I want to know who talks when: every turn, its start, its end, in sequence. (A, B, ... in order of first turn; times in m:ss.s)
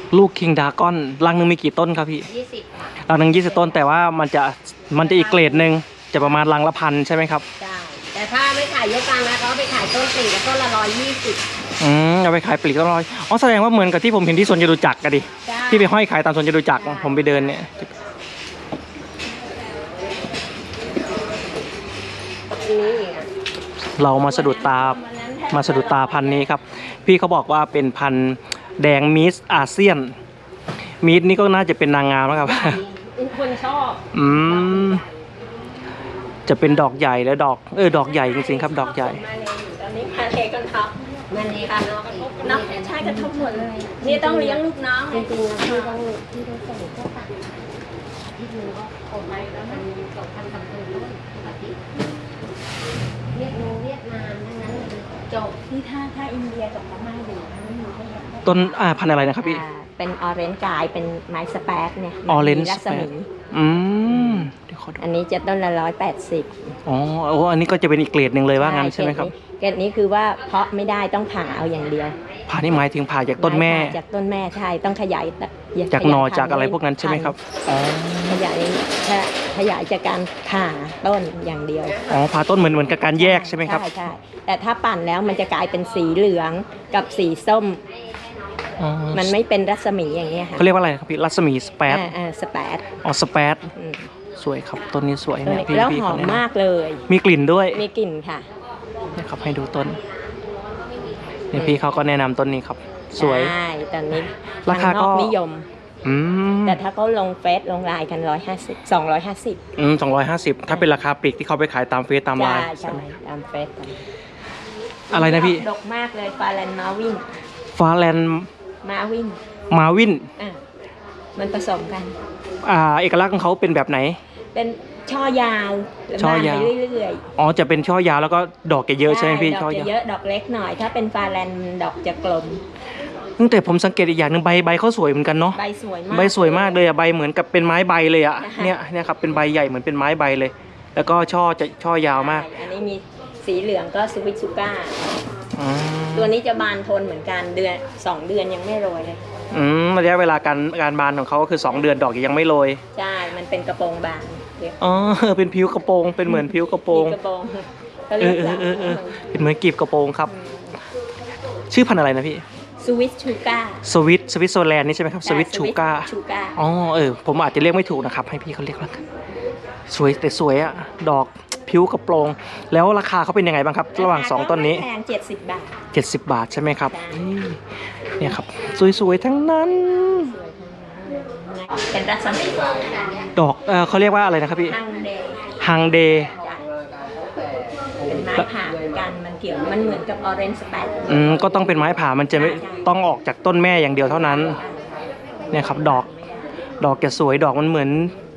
0:00.1-0:02.3 A
0:02.3-0:02.9 B
0:03.0-0:07.4 A
0:04.9-0:06.4 C
0:07.6-0:08.0 C
0:08.1-0:11.4 B
0:11.8-0:17.9 A
0:15.4-0:15.9 C
0:16.7-0:17.5 C
0:22.6-0:23.3 B
0:24.0-0:25.0 A
0:24.1-0:26.5 C
0:25.5-0:30.1 A
0:31.0-0:32.8 A
0:32.4-0:35.0 B
0:34.1-0:35.0 A
0:36.4-0:39.2 A
0:37.9-0:46.0 C
0:41.3-0:47.3 B
0:48.3-0:51.8 B
0:53.3-0:55.4 B
0:55.3-0:58.8 C
0:58.4-0:59.6 A
0:59.4-1:03.3 C
1:02.3-1:05.0 A
1:04.1-1:04.4 C
1:05.0-1:06.7 C
1:06.8-1:09.3 A
1:08.6-1:12.2 C
1:12.0-1:12.4 B
1:12.5-1:14.0 A
1:13.4-1:17.4 C
1:15.9-1:18.4 A
1:18.3-1:22.1 C
1:21.9-1:22.9 B
1:22.1-1:23.8 A
1:23.0-1:27.8 C
1:25.3-1:26.2 B
1:26.7-1:27.2 B
1:27.8-1:29.1 B
1:28.8-1:29.3 A
1:29.1-1:30.7 C
1:30.3-1:30.6 B
1:30.6-1:32.1 A
1:31.9-1:33.0 C
1:33.0-1:33.7 A
1:33.7-1:34.1 C
1:34.4-1:36.4 A
1:35.4-1:37.1 C
1:37.1-1:37.8 A
1:37.7-1:38.4 C
1:39.1-1:40.0 A
1:39.3-1:41.8 B
1:41.5-1:42.0 C
1:41.5-1:43.5 A
1:43.2-1:45.7 C
1:44.6-1:45.3 A
1:46.0-1:46.8 A
1:46.6-1:49.6 C
1:49.8-1:53.1 A
1:52.3-1:54.0 C
1:55.1-1:57.2 C
1:55.1-1:55.7 A
1:57.7-1:58.5 A
1:58.8-1:59.4 C
1:59.7-2:00.3 A
2:01.4-2:02.2 C
2:02.6-2:04.2 A
2:04.5-2:07.2 C
2:06.2-2:06.7 A
2:07.3-2:09.9 A
2:09.0-2:12.6 C
2:13.4-2:15.6 A
2:15.5-2:16.8 C
2:16.1-2:22.5 A
2:18.4-2:18.8 C
2:22.0-2:25.0 C
2:25.5-2:26.3 A
2:26.1-2:29.2 C
2:29.5-2:32.8 A
2:32.9-2:34.8 C
2:34.8-2:37.2 A
2:36.3-2:39.2 C
2:38.2-2:40.3 A
2:40.3-2:40.8 C
2:41.7-2:42.4 A
2:42.8-2:43.8 C
2:43.8-2:49.0 A
2:45.2-2:46.6 C
2:49.9-2:54.8 A
2:53.9-2:55.8 C
2:55.9-2:57.6 A
2:56.8-2:57.2 C
2:58.2-3:00.3 A
3:00.1-3:02.9 C
3:02.2-3:03.3 B
3:03.3-3:04.8 A
3:04.6-3:05.6 C
3:05.6-3:06.3 A
3:06.3-3:06.6 C
3:08.0-3:11.3 C
3:11.1-3:14.6 A
3:12.3-3:12.9 C
3:14.0-3:16.5 C
3:15.5-3:16.0 A
3:16.8-3:18.1 A